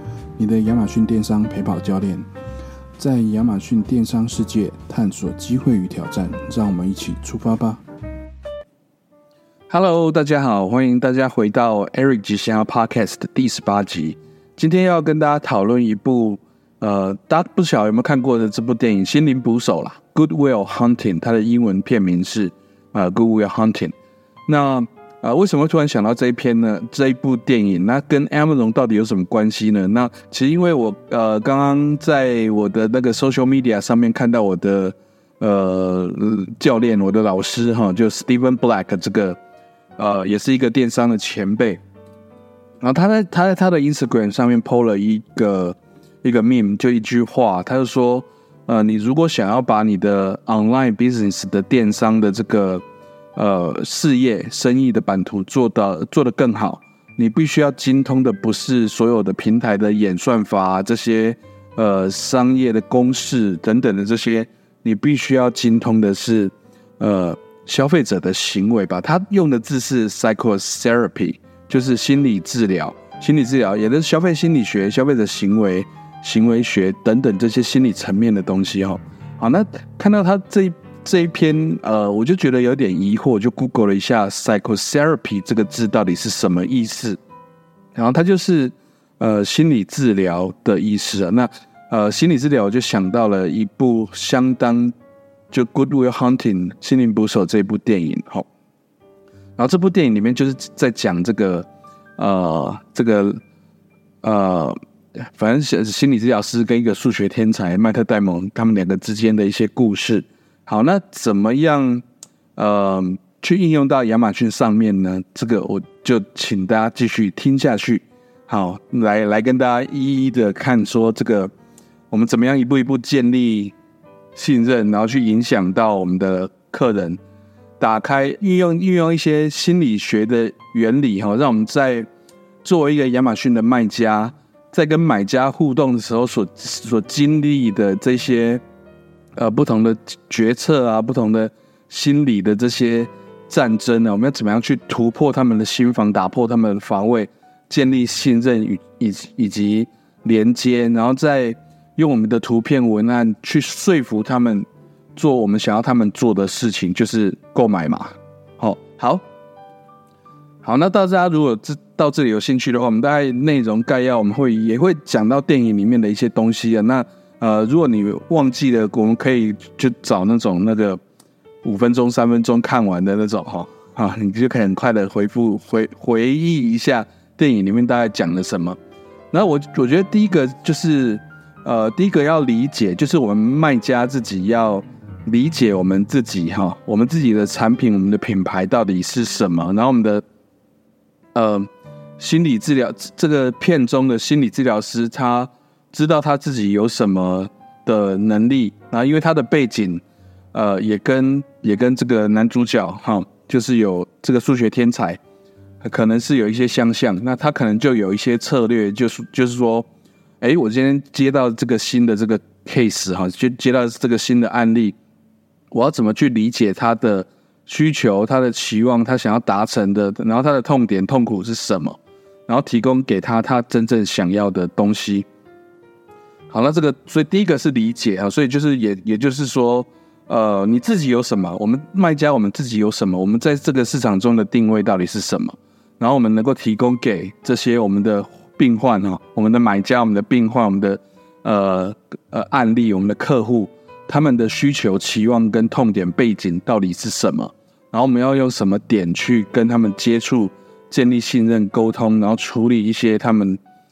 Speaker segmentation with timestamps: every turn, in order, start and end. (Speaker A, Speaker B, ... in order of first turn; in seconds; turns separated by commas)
Speaker A: 0.4-2.3, Speaker A: 3.0-7.8, Speaker A: 9.7-23.9, Speaker A: 24.5-39.4, Speaker A: 40.0-41.8, Speaker A: 42.8-52.8, Speaker A: 53.3-87.2, Speaker A: 87.9-94.9, Speaker A: 95.5-98.5, Speaker A: 99.6-103.4, Speaker A: 104.2-104.8, Speaker A: 105.3-112.0, Speaker A: 112.5-121.5, Speaker A: 122.1-123.7, Speaker A: 124.3-127.2, Speaker A: 127.8-132.1, Speaker A: 132.6-138.6, Speaker A: 139.3-159.2, Speaker A: 160.6-171.0, Speaker A: 171.6-178.8, Speaker A: 179.3-190.2, Speaker A: 191.3-205.2, Speaker A: 205.8-209.9, Speaker A: 210.4-214.9, Speaker A: 215.7-225.2, Speaker A: 226.5-253.6